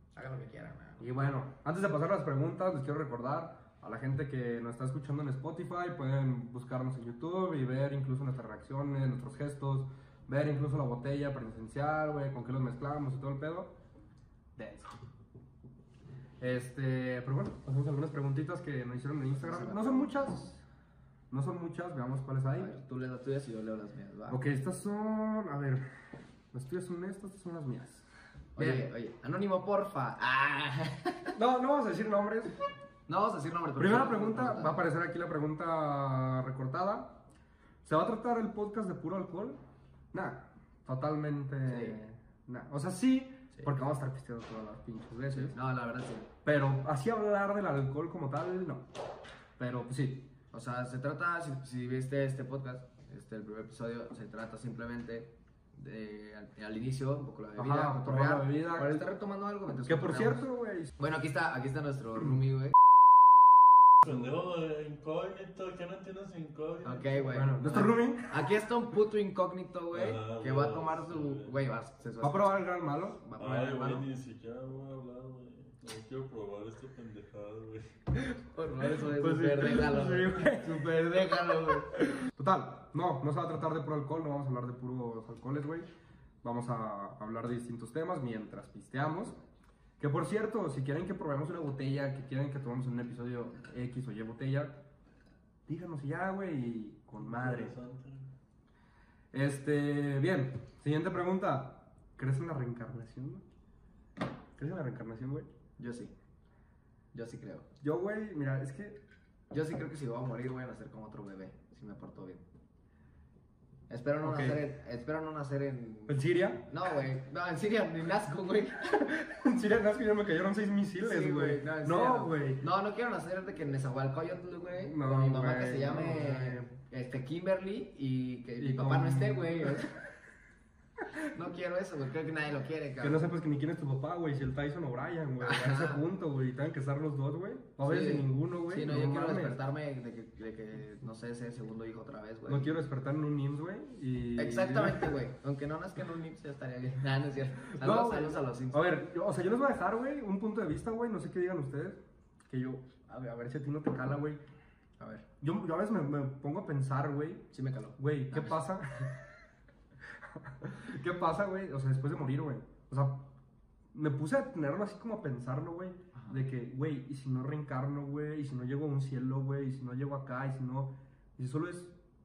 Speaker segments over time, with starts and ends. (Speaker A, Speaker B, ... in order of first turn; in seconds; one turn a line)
Speaker A: 0.1-1.2
Speaker B: 1.0-13.7
Speaker B: 14.6-14.9
Speaker B: 16.4-20.6
Speaker A: 19.3-20.5
Speaker B: 21.3-22.7
Speaker A: 22.5-24.4
Speaker B: 24.3-25.9
Speaker B: 26.5-28.1
Speaker A: 28.6-31.4
Speaker B: 28.6-28.9
Speaker B: 31.3-32.5
Speaker A: 33.1-34.8
Speaker B: 33.8-37.2
Speaker B: 37.8-39.6
Speaker B: 40.1-45.6
Speaker A: 41.6-42.0
Speaker A: 45.3-46.3
Speaker B: 46.4-48.9
Speaker B: 49.6-50.3
Speaker A: 50.5-60.5
Speaker B: 57.5-59.1
Speaker B: 59.9-60.9
Speaker A: 61.0-62.8
Speaker C: 64.0-67.9
Speaker A: 66.8-74.1
Speaker B: 67.3-68.5
Speaker C: 69.9-71.6
Speaker B: 72.2-73.2
Speaker C: 73.4-77.9
Speaker A: 78.3-82.2
Speaker B: 78.8-85.9
Speaker B: 86.4-89.4
Speaker B: 90.0-94.8
Speaker B: 95.7-97.8
Speaker C: 97.2-98.3
Speaker B: 99.3-103.4
Speaker B: 104.6-105.5
Speaker A: 105.8-106.1
Speaker A: 107.1-107.7
Speaker B: 107.8-109.0
Speaker A: 109.5-112.4
Speaker A: 113.9-119.1
Speaker B: 114.2-114.6
Speaker B: 116.1-116.7
Speaker B: 118.9-122.6
Speaker A: 121.0-130.0
Speaker B: 124.8-126.7
Speaker B: 128.6-130.0
Speaker A: 131.1-133.3
Speaker B: 133.0-139.6
Speaker A: 135.4-136.0
Speaker A: 137.8-142.8
Speaker B: 142.5-145.2
Speaker A: 144.3-148.8
Speaker B: 147.7-154.4
Speaker A: 155.0-155.2
Speaker B: 155.4-159.2
Speaker A: 157.5-158.6
Speaker B: 160.1-163.3
Speaker B: 163.9-171.9
Speaker A: 166.1-166.4